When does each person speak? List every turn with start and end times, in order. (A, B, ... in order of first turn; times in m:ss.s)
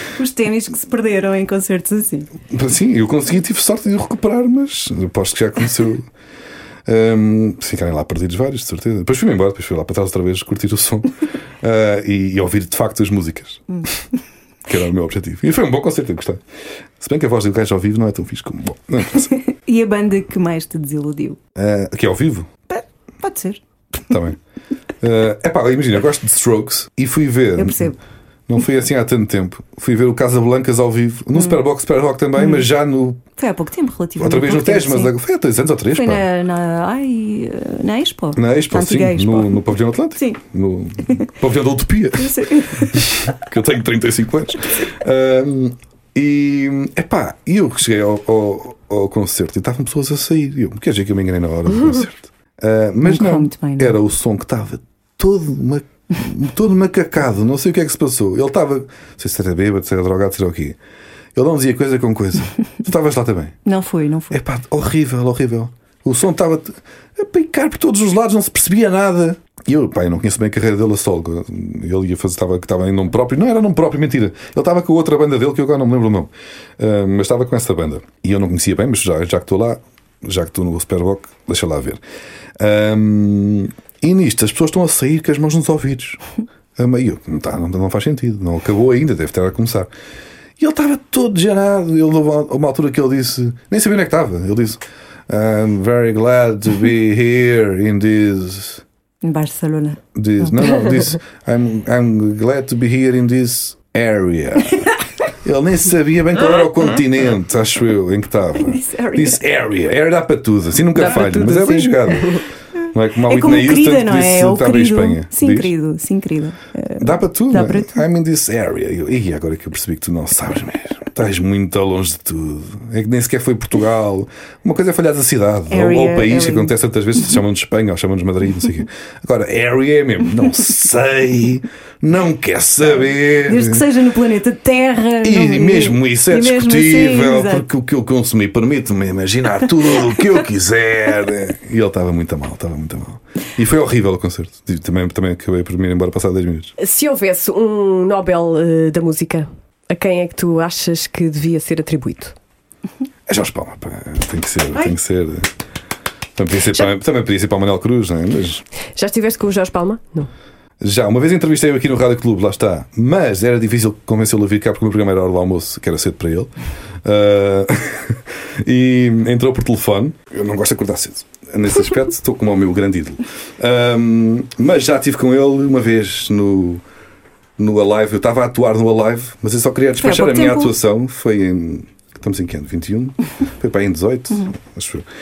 0:00.1-0:02.3 A
0:02.5-0:06.1 B
0:06.8-0:13.7 B
0:14.7-0:16.4 B
0:17.0-0:19.3 B
0:19.4-0:21.4 A
0:21.5-0:22.5 B
0:22.7-0:23.6 A
0:24.1-0:24.4 B
0:25.0-0:27.9 B
0:27.6-0:28.0 A
0:28.5-0:33.2 B
0:32.4-0:32.6 A
0:33.4-0:35.1 A
0:34.2-0:36.2 B
0:35.9-0:40.4 A
0:38.4-1:00.8 B
0:42.2-0:43.2 A
0:53.0-0:53.9 A
1:01.3-1:03.6 B
1:03.6-1:04.4 A
1:04.3-1:22.0 B
1:22.6-1:26.2 B
1:26.8-1:29.9 B
1:30.6-1:38.8 B
1:39.2-1:40.8 A
1:40.1-1:44.8 B
1:45.4-1:52.4 B
1:48.6-1:49.4 A
1:51.0-1:52.4 C
1:52.9-1:55.7 B
1:53.2-1:58.0 A
1:57.0-2:13.8 B
2:05.7-2:06.7 A
2:13.4-2:17.6 A
2:15.2-2:26.7 B
2:26.8-2:32.3 C
2:33.3-2:35.5 B
2:36.4-2:38.6 B
2:39.0-2:40.3 C
2:40.8-2:46.5 B
2:47.0-2:56.8 B
2:57.6-3:05.0 B
3:00.0-3:00.7 A